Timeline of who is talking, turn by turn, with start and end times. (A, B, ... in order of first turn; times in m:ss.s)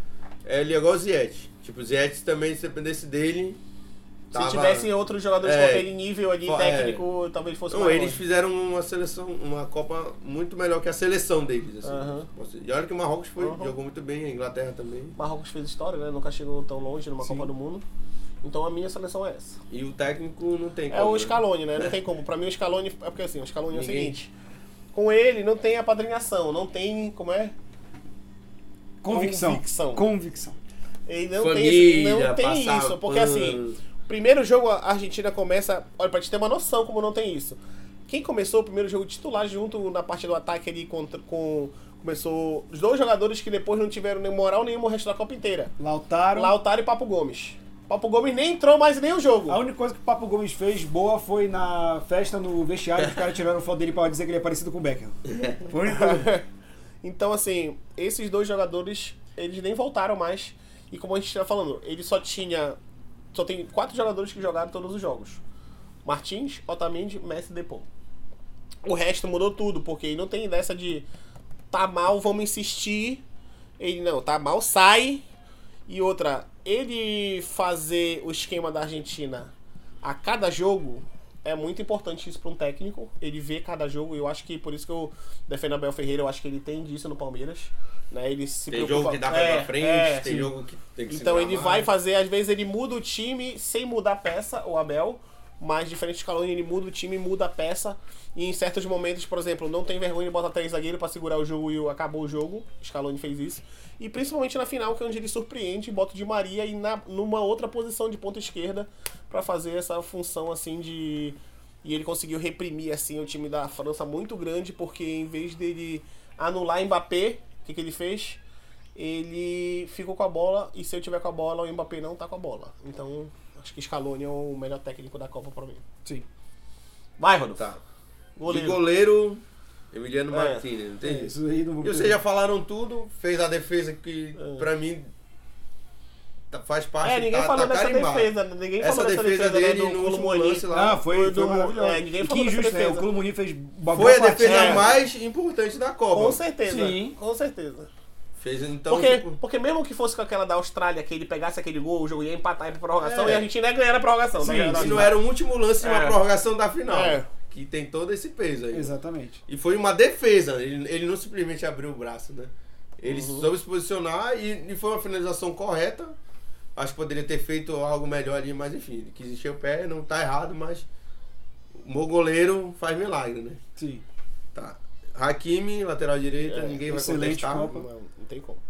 0:00.4-0:03.6 A
0:04.3-0:08.2 B
0:04.3-0:04.9 A
0:05.4-0:05.9 A
0:06.4-0:07.0 A
0:07.7-0:15.2 A
0:11.8-0:12.3 B
0:13.4-0:13.7 B
0:15.2-0:17.8 B
0:17.2-0:17.5 C
0:18.4-0:19.6 B
0:19.7-0:21.9 A
0:20.9-0:24.3 B
0:23.7-0:24.2 A
0:24.9-0:27.6 B
0:29.0-0:30.6 C
0:29.1-0:30.0 B
0:31.1-0:45.7 B
0:31.4-0:33.8 A
0:45.8-0:46.6 C
0:46.3-0:49.6 B
0:49.5-0:55.2 C
0:55.3-0:55.7 A
0:55.7-0:56.3 C
0:55.8-0:56.4 B
0:57.0-1:02.8 B
1:03.3-1:05.4 B
1:06.0-1:07.9 B
1:08.8-1:11.0 B
1:11.7-1:13.2 B
1:13.8-1:15.2 B
1:15.9-1:19.5 B
1:20.0-1:30.3 B
1:28.7-1:31.9 A
1:30.2-1:30.5 C
1:31.1-1:58.4 B
1:59.0-2:05.8 B
2:07.2-2:07.7 B
2:08.4-2:08.8 B
2:08.5-2:15.1 A
2:10.3-2:10.6 B
2:11.0-2:12.2 C
2:14.4-2:14.7 B
2:16.5-2:21.0 A
2:17.0-2:23.1 B
2:20.7-2:25.0 C
2:23.9-2:26.4 A
2:24.4-2:24.9 B
2:26.1-2:27.9 B
2:26.7-2:27.2 C
2:28.4-2:29.4 A
2:28.9-2:35.2 B
2:33.0-2:33.5 A
2:34.4-2:35.1 C
2:34.7-2:38.9 A
2:35.8-2:36.2 B
2:36.9-2:37.3 B
2:38.7-2:39.4 C
2:39.5-2:46.1 A
2:43.0-2:43.5 B
2:46.8-2:50.9 A
2:51.8-2:53.6 A
2:53.8-2:54.0 C
2:54.6-2:57.7 A
2:56.4-2:58.6 B
2:56.9-2:57.9 C